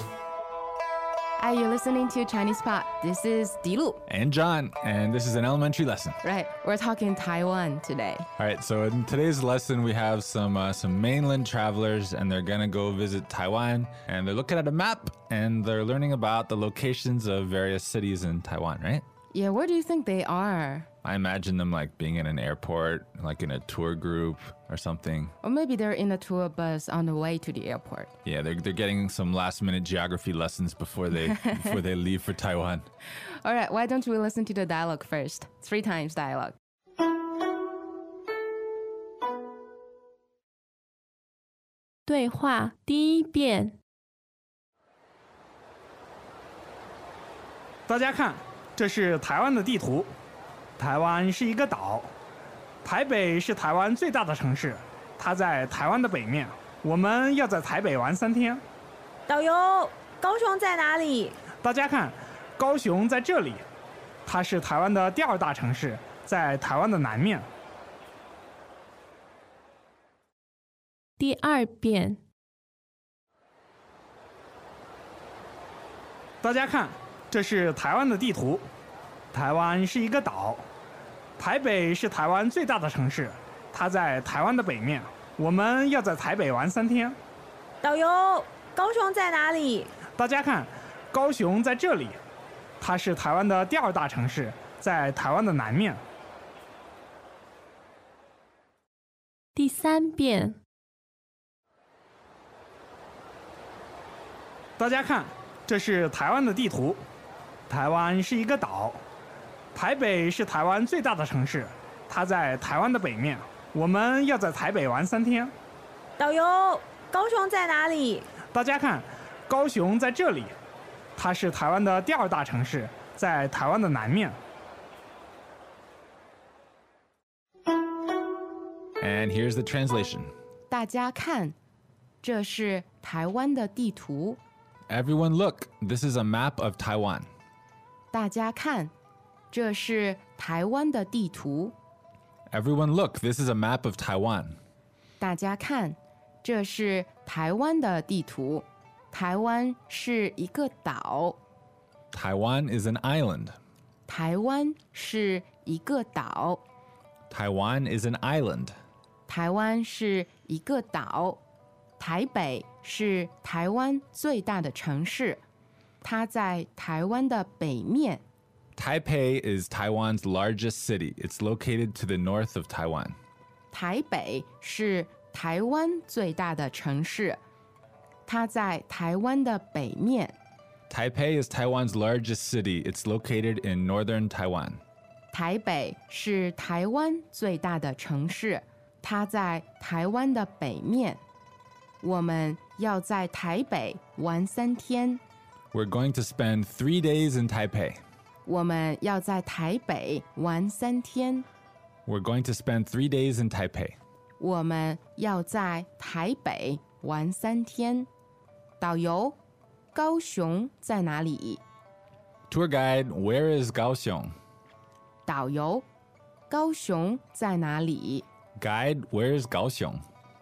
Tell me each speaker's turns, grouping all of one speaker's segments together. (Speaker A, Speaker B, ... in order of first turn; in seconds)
Speaker A: 1.4-4.0, 6.2-8.3, 19.3-20.9, 25.4-28.1, 31.3-31.6, 33.4-36.6, 130.7-131.6, 132.2-134.4, 138.1-138.9, 139.5-141.7, 145.2-151.4, 154.1-156.6, 159.3-161.4, 162.0-165.4, 166.0-168.2, 173.7-177.4, 178.3-180.3, 185.3-191.2, 192.0-195.2, 198.4-201.4, 204.4-208.1, 208.8-209.4, 209.9-211.6, 215.3-215.8, 216.5-218.3
Speaker B: 4.1-6.2, 8.4-19.0, 21.0-25.3, 28.2-32.9, 129.0-130.3, 134.9-137.3, 142.5-144.6, 152.1-153.6, 157.3-158.8, 168.8-173.2, 180.9-184.8, 195.7-198.0, 202.1-204.0, 212.5-214.3, 218.6-220.0
Speaker C: 42.1-43.8, 71.2-72.2, 99.5-100.6
Speaker D: 47.9-50.1, 50.8-52.1, 52.9-58.6, 61.5-63.6, 64.3-67.5, 76.4-78.7, 79.3-80.7, 81.4-87.2, 90.1-92.2, 92.8-96.0, 104.8-107.0, 107.7-109.0, 109.8-115.5, 118.4-120.5, 121.2-124.4
Speaker E: 59.3-61.5, 87.8-90.0, 116.2-118.3